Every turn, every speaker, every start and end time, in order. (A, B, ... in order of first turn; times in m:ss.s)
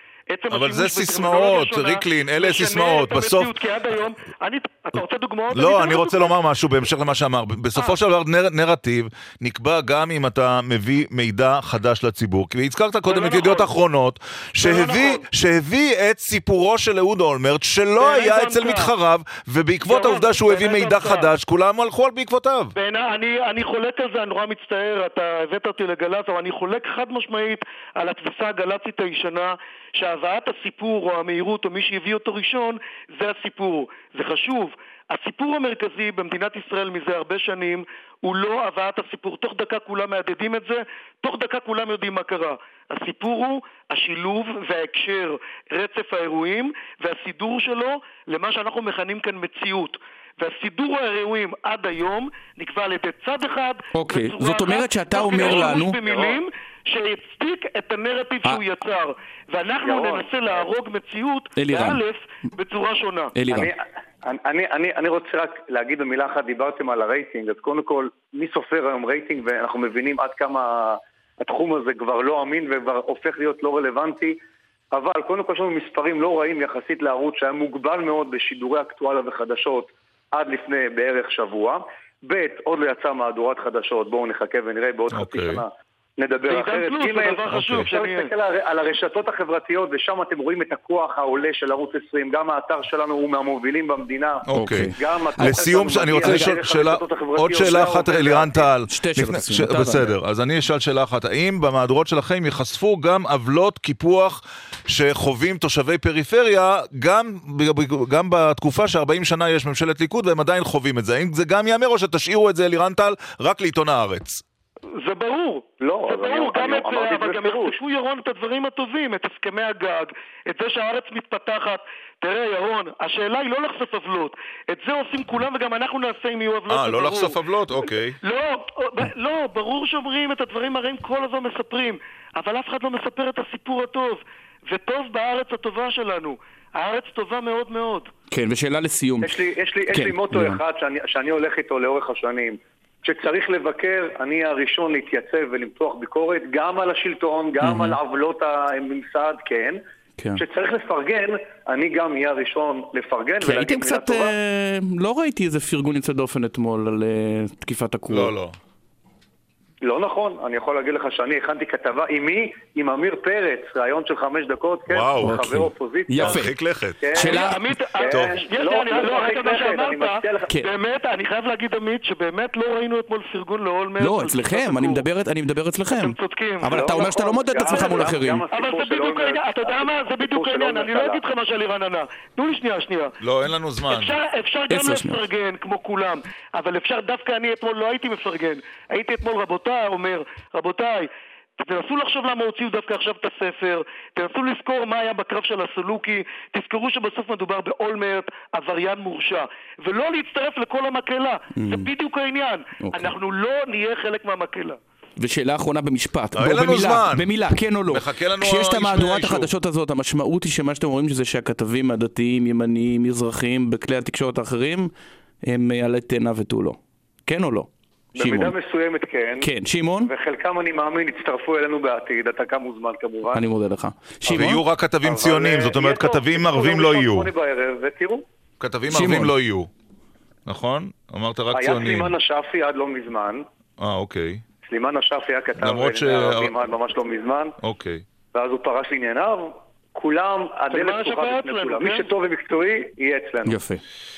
0:00.3-0:06.3 A
0:00.5-0:03.5 B
0:05.5-0:22.7 B
0:13.0-0:13.7 A
0:14.6-0:15.2 A
0:18.0-0:18.9 A
0:19.8-0:21.3 A
0:22.8-1:03.4 A
0:53.9-0:56.0 C
0:56.0-0:56.3 D
0:59.8-1:00.3 D
1:01.5-1:02.0 C
1:03.3-1:03.7 C
1:03.5-1:14.4 D
1:14.9-1:38.7 D
1:25.1-1:25.6 B
1:26.5-1:28.3 A
1:27.5-1:27.9 B
1:34.5-1:54.4 B
1:34.5-1:36.6 C
1:38.9-1:40.1 C
1:55.0-2:07.4 A
1:55.8-1:57.8 D
2:06.7-2:08.2 B
2:08.2-2:18.1 A
2:18.3-2:19.4 C
2:19.2-2:29.8 D
2:19.9-2:20.6 C
2:27.6-2:28.0 C
2:30.3-2:34.3 D
2:33.4-2:38.3 C
2:38.1-2:38.6 B
2:39.8-2:46.4 D
2:44.9-2:45.5 B
2:45.2-2:46.5 C
2:46.2-2:47.0 B
2:47.0-2:50.5 D
2:47.1-2:47.7 C
2:47.2-2:55.1 A
2:48.1-2:48.5 B
2:54.0-2:58.4 C
2:55.9-3:03.1 A
2:56.7-3:01.2 D
3:03.2-3:04.1 B
3:03.8-3:24.8 A
3:04.7-3:05.2 C
3:21.6-3:21.9 C
3:22.8-3:23.1 C
3:25.2-3:34.9 C
3:26.3-3:27.3 B
3:27.9-3:29.5 B
3:35.4-3:38.5 C
3:38.2-3:39.5 D
3:39.4-3:40.1 C
3:40.0-3:43.4 D
3:43.3-3:44.6 C
3:44.3-3:47.3 B
3:45.0-3:48.2 D
3:48.6-3:49.7 B
3:48.9-3:49.3 C
3:50.4-3:52.1 B
3:51.5-3:53.4 D
3:53.8-3:54.4 B
3:54.6-3:57.5 D
3:55.6-3:56.5 B
3:57.6-3:58.0 B
3:58.3-4:03.6 D
4:00.7-4:02.0 A
4:03.4-4:03.8 C